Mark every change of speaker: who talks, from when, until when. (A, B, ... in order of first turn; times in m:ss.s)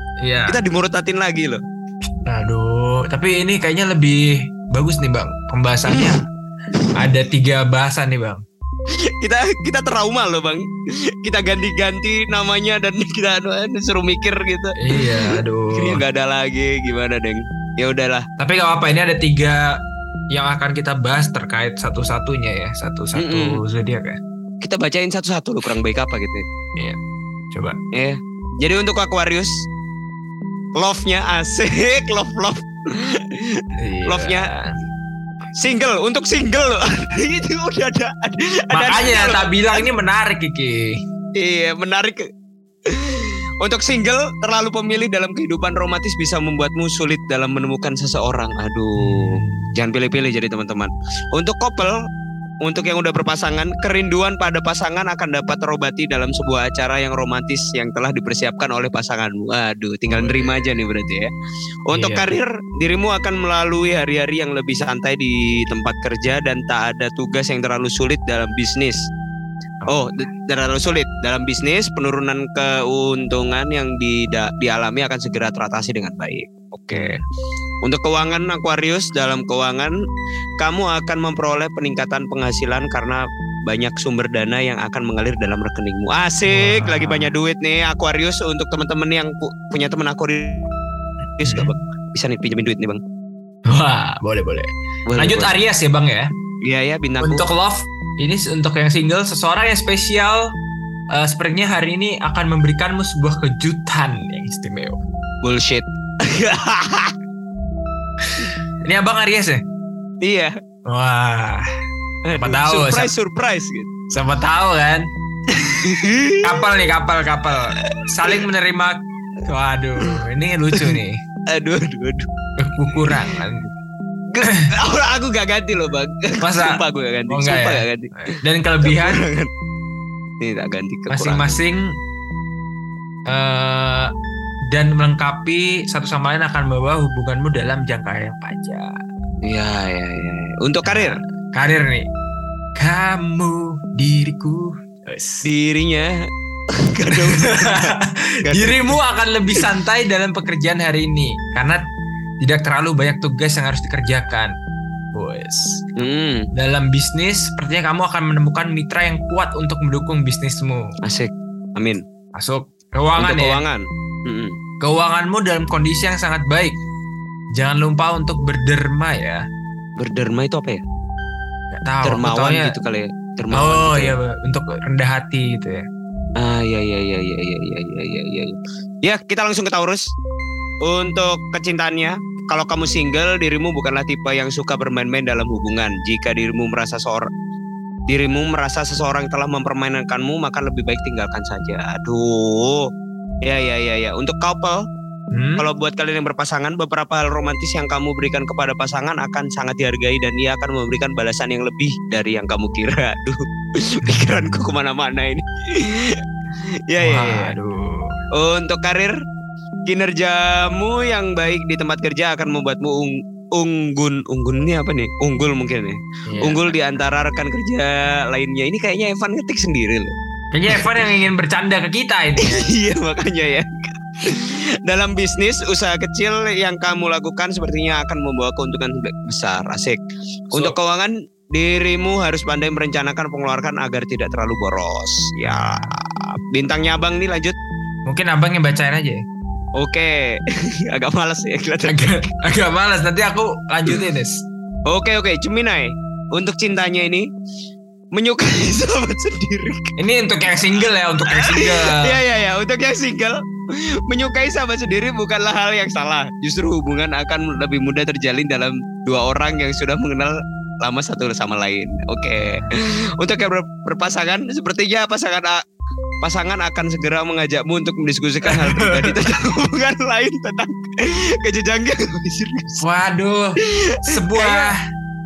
0:00.2-0:00.6 A
0:00.5-0:01.6 B
0:02.3-0:06.2 A
0:07.0-0:08.4 A
0:09.1-0:10.6 B
0:11.2-0:18.2 B
0:14.8-0:16.0 A
0:18.4-0:19.6 A
0:20.3-0:24.2 A
0:23.2-0:23.6 B
0:24.6-0:26.4 B
0:27.9-0:29.5 B
0:30.8-0:34.5 B
0:33.8-0:34.8 A
0:35.6-0:39.8 B
0:38.7-0:41.0 A
0:41.4-0:42.2 B
0:42.9-0:52.0 B
0:49.0-0:49.7 A
0:52.6-1:01.3 B
1:00.1-1:00.8 A
1:01.9-1:09.0 B
1:01.9-1:02.3 A
1:09.8-1:10.2 A
1:09.9-1:17.2 B
1:16.9-1:17.2 A
1:17.8-1:19.9 B
1:20.6-1:30.7 B
1:26.5-1:27.3 A
1:31.4-1:33.0 B
1:31.4-1:31.7 A
1:33.7-1:36.3 A
1:35.1-1:35.5 B
1:36.6-1:37.5 B
1:37.2-1:40.4 A
1:41.1-1:45.0 A
1:45.4-1:47.1 B
1:48.4-1:49.6 A
1:50.2-1:50.5 B
1:50.9-1:51.7 A
1:52.3-1:53.9 B
1:52.3-1:53.1 A
1:54.1-1:55.1 A
1:55.5-1:56.6 B
1:56.4-2:01.2 A
1:57.8-1:58.4 B
2:01.5-2:02.3 B
2:02.6-2:03.7 A
2:03.0-2:03.4 B
2:04.3-2:08.1 B
2:04.4-2:04.7 A
2:06.4-2:09.2 A
2:08.8-2:09.5 B
2:10.4-2:11.6 B
2:11.1-2:11.9 A
2:13.3-2:14.1 A
2:14.7-2:18.9 A
2:19.5-2:21.2 B
2:20.8-2:22.1 A
2:22.8-2:25.5 A
2:25.4-2:26.1 B
2:26.8-2:29.0 B
2:27.4-2:31.8 A
2:32.4-2:34.5 A
2:35.1-2:35.8 A
2:36.0-2:36.5 B
2:36.5-2:40.9 A
2:41.0-2:42.0 B
2:42.4-2:43.6 A
2:43.2-2:44.6 B
2:44.8-2:46.8 A
2:47.5-2:49.4 A
2:50.0-2:50.8 B
2:51.7-2:52.8 A
2:52.0-2:54.2 B
2:53.5-2:55.8 A
2:56.4-3:00.0 B
3:00.8-3:07.3 B
3:08.1-3:12.9 B
3:13.4-3:14.8 B
3:15.3-3:15.6 A
3:15.6-3:26.2 B
3:24.0-3:24.8 A
3:26.9-3:27.5 B
3:27.0-3:28.1 A
3:28.4-3:29.2 B
3:29.9-3:40.1 B
3:36.3-3:36.8 A
3:40.5-3:42.7 A
3:40.7-3:41.0 B
3:42.4-3:50.0 B
3:50.5-3:57.6 B
3:55.4-3:56.0 A
3:58.1-3:59.2 A
3:59.8-4:02.3 B
4:01.9-4:04.4 A
4:04.9-4:07.3 B
4:08.2-4:10.0 B
4:10.0-4:12.2 A
4:11.3-4:13.4 B
4:14.1-4:25.6 B
4:22.4-4:22.8 A
4:26.2-4:32.8 B
4:28.5-4:29.2 A
4:32.8-4:34.8 A
4:33.6-4:34.7 B